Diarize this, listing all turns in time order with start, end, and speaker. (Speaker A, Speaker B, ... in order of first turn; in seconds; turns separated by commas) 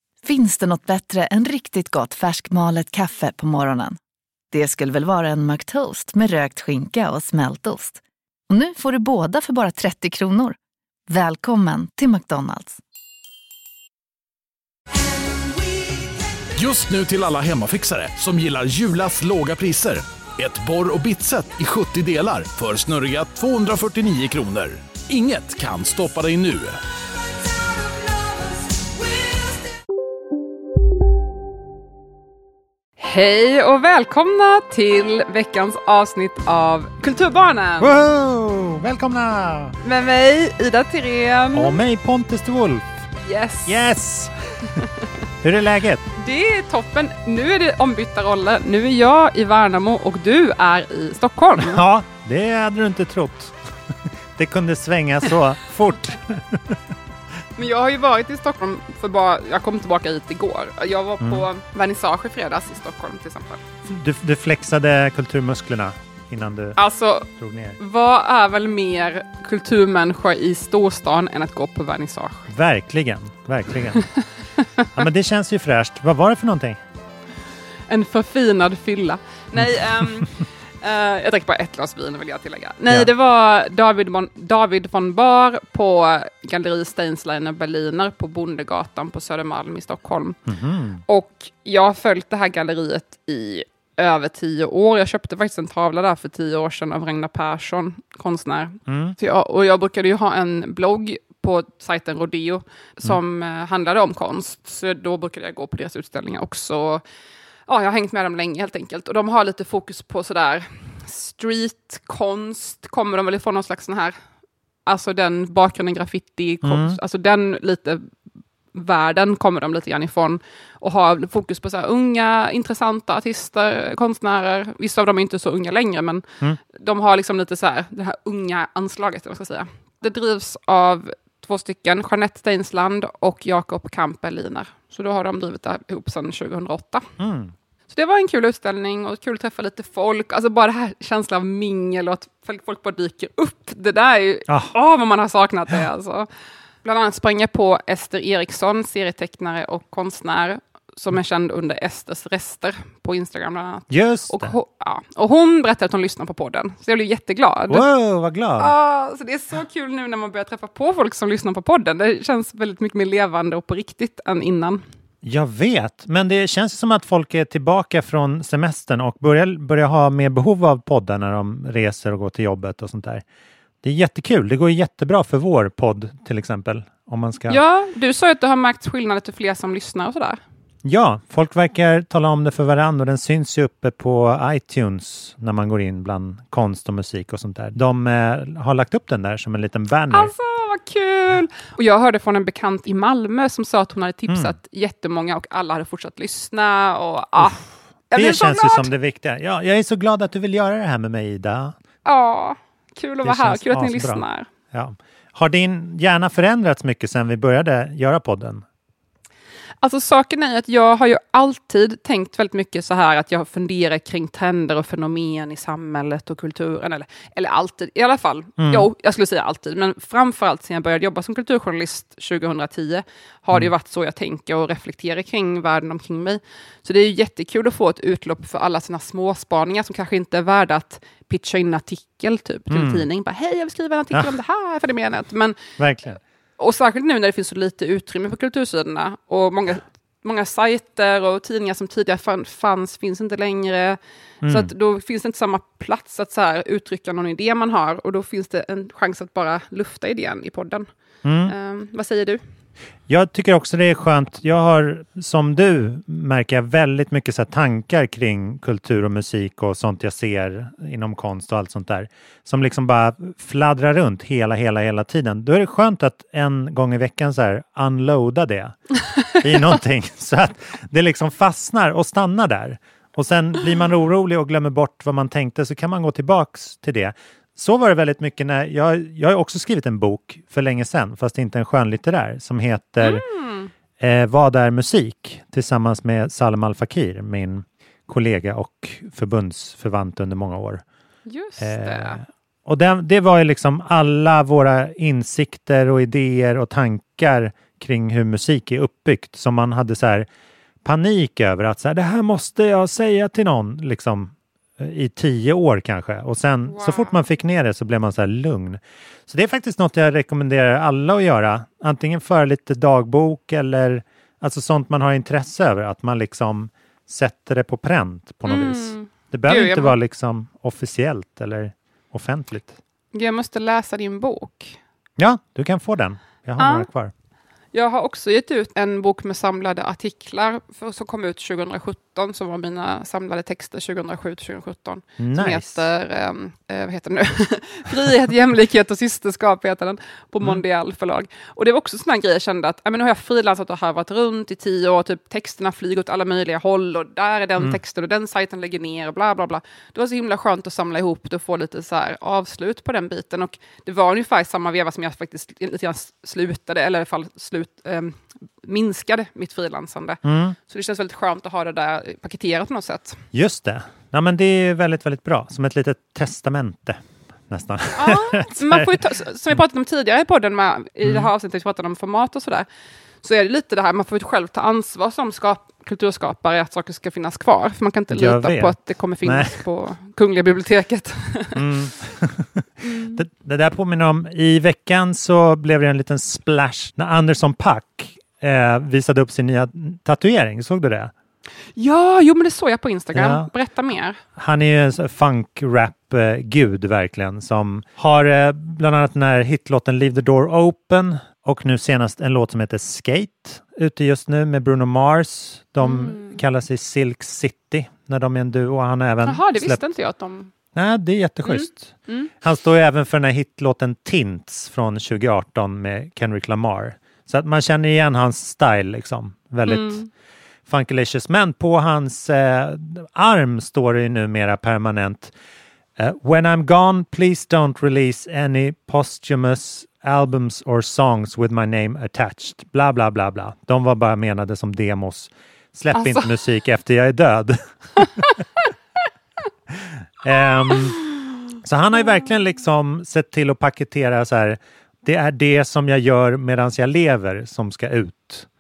Speaker A: 0.2-4.0, Speaker A: 4.5-10.6, Speaker A: 11.1-12.8, Speaker B: 16.6-26.8, Speaker C: 33.0-37.9, Speaker D: 37.8-39.8, Speaker C: 39.8-41.8, Speaker D: 41.5-43.0, Speaker C: 43.2-43.8, Speaker D: 43.7-44.3, Speaker D: 45.4-46.1, Speaker C: 46.2-51.8, Speaker D: 51.6-53.6, Speaker D: 54.4-56.8, Speaker C: 57.6-63.6, Speaker D: 61.2-61.5, Speaker D: 63.9-67.8, Speaker C: 66.8-72.5, Speaker D: 72.5-74.0, Speaker D: 75.0-76.8, Speaker C: 77.9-90.4, Speaker D: 79.6-80.3, Speaker D: 90.5-91.0, Speaker C: 91.1-107.0, Speaker D: 98.9-99.2, Speaker C: 107.7-114.2, Speaker C: 114.9-118.1, Speaker D: 116.6-117.0, Speaker C: 118.7-137.1, Speaker D: 137.2-137.5, Speaker C: 137.9-146.3, Speaker C: 146.8-157.8, Speaker D: 153.9-154.5, Speaker D: 157.7-158.7, Speaker C: 158.6-164.8, Speaker D: 165.2-173.2, Speaker D: 173.8-177.6, Speaker C: 177.5-180.4, Speaker D: 180.8-190.3, Speaker C: 190.1-198.9, Speaker D: 194.3-194.6, Speaker D: 198.1-201.8, Speaker C: 202.1-204.5, Speaker D: 203.2-208.6, Speaker C: 209.8-235.6, Speaker D: 218.6-218.9, Speaker D: 232.7-233.1, Speaker D: 235.8-236.2, Speaker C: 236.6-250.9, Speaker D: 244.4-244.7, Speaker D: 251.2-251.5, Speaker C: 251.5-252.4, Speaker D: 253.1-268.8, Speaker D: 269.3-283.2, Speaker C: 283.0-283.7, Speaker D: 284.0-290.8, Speaker C: 291.3-292.2, Speaker D: 291.6-300.3, Speaker D: 300.8-322.8, Speaker C: 306.7-307.2, Speaker C: 318.5-320.0, Speaker C: 323.1-324.8, Speaker D: 325.2-327.1, Speaker C: 326.6-326.9, Speaker C: 327.7-363.2, Speaker D: 335.2-335.8, Speaker D: 360.2-360.6, Speaker D: 363.3-369.0, Speaker C: 368.0-372.7, Speaker D: 371.0-371.3, Speaker C: 373.2-381.6, Speaker D: 378.1-379.6, Speaker D: 381.6-391.1, Speaker C: 382.8-383.2, Speaker C: 391.8-394.2, Speaker D: 393.1-393.5, Speaker D: 394.4-409.8, Speaker C: 405.8-406.4, Speaker C: 409.2-410.5, Speaker D: 410.7-420.0, Speaker C: 411.4-412.3, Speaker C: 419.7-420.1, Speaker D: 420.7-425.3, Speaker D: 426.0-438.3, Speaker C: 435.9-436.3, Speaker C: 438.0-438.3, Speaker D: 439.7-441.0, Speaker C: 440.7-441.2, Speaker D: 441.6-448.5